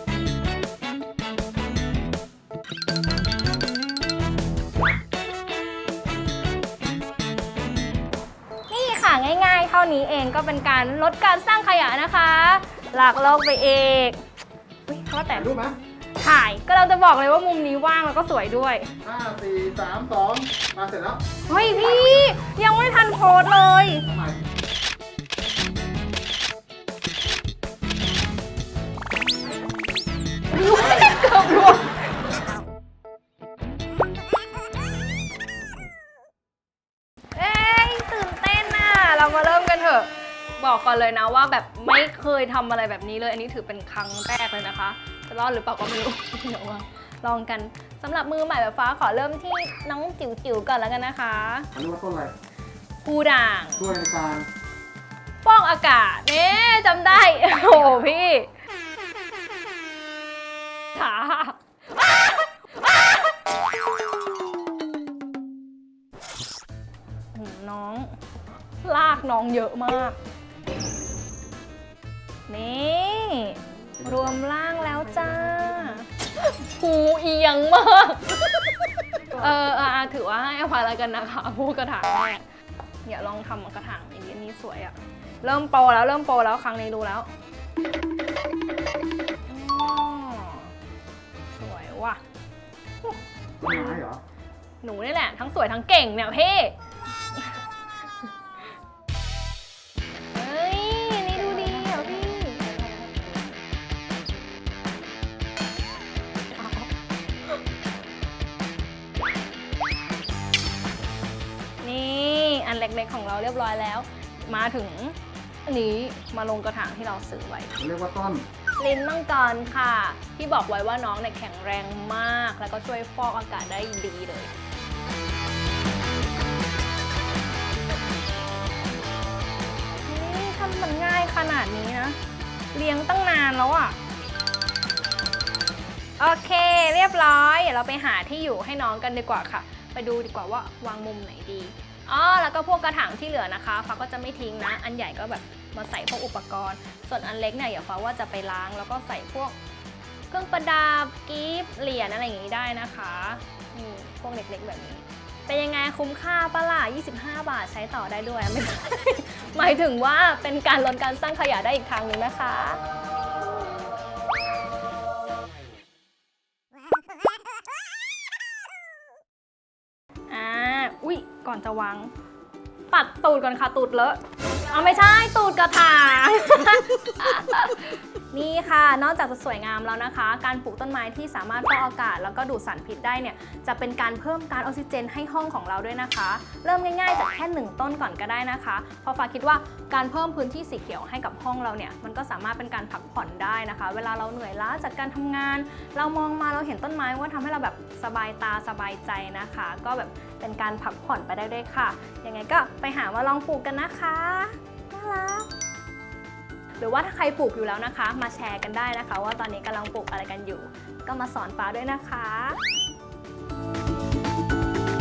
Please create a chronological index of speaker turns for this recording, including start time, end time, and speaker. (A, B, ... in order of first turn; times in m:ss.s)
0:08.7-0:14.2 A
0:14.9-0:15.6 A
0:15.3-0:15.8 B
0:16.2-0:18.9 A
0:19.0-0:21.2 B
0:21.5-0:24.0 A
0:24.0-0:24.4 B
0:30.5-0:32.2 A
0:37.3-0:51.7 A
0:51.7-0:52.3 B
0:53.0-0:53.9 A
0:53.8-0:54.5 B
0:55.4-0:58.5 A
1:00.9-1:03.3 A
1:07.3-1:08.2 A
1:08.8-1:10.2 A
1:12.5-1:22.4 A
1:23.0-1:27.3 A
1:29.5-1:30.7 A
1:31.5-1:32.2 A
1:33.0-1:34.0 A
1:33.6-1:34.2 B
1:34.8-1:36.8 A
1:37.3-1:37.6 A
1:40.3-1:42.7 A
1:46.5-1:46.9 A
1:51.8-1:57.7 A
1:57.8-1:58.4 B
1:58.8-2:04.5 A
2:10.0-2:12.2 A
2:12.7-2:14.0 A
2:16.2-2:29.6 A
2:30.3-2:42.8 A
2:50.3-2:52.1 A
2:52.9-3:25.5 A
3:26.8-3:32.6 A